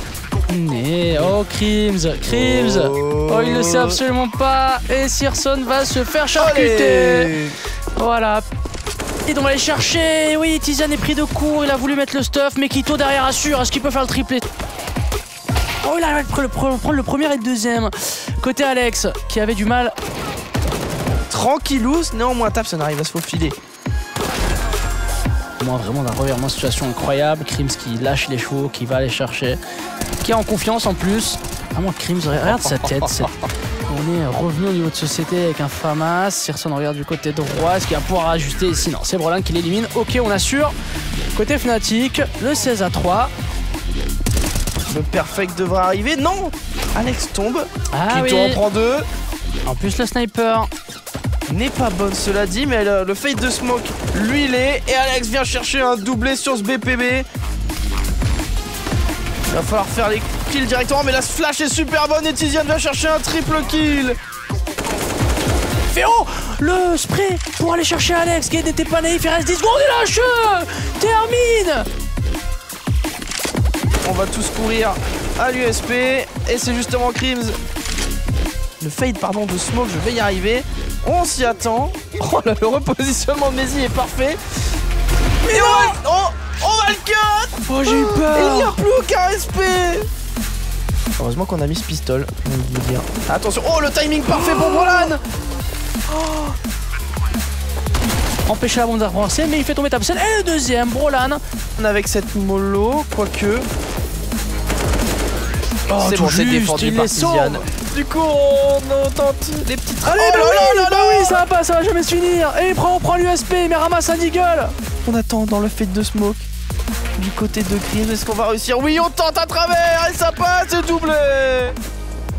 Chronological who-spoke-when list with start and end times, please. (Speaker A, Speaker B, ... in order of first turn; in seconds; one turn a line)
Speaker A: 0.5-7.3
Speaker B: 2.3-4.0
Speaker B: 6.3-7.6
Speaker A: 8.0-8.4
Speaker A: 9.2-14.4
Speaker A: 15.8-19.9
Speaker B: 21.3-23.6
Speaker A: 25.6-29.6
Speaker A: 30.2-33.3
Speaker A: 33.9-40.7
Speaker A: 41.3-43.3
Speaker B: 44.9-49.1
Speaker A: 47.9-48.6
Speaker A: 49.6-50.7
Speaker B: 51.5-57.3
Speaker B: 59.5-64.2
Speaker A: 65.9-71.9
Speaker B: 74.0-77.6
Speaker B: 78.8-84.4
Speaker B: 85.4-90.1
Speaker A: 85.4-86.0
Speaker A: 87.7-88.8
Speaker B: 91.2-95.2
Speaker A: 98.5-101.4
Speaker B: 101.8-103.7
Speaker A: 105.9-107.6
Speaker B: 105.9-111.4
Speaker A: 110.0-114.7
Speaker B: 115.0-116.5
Speaker B: 117.2-121.8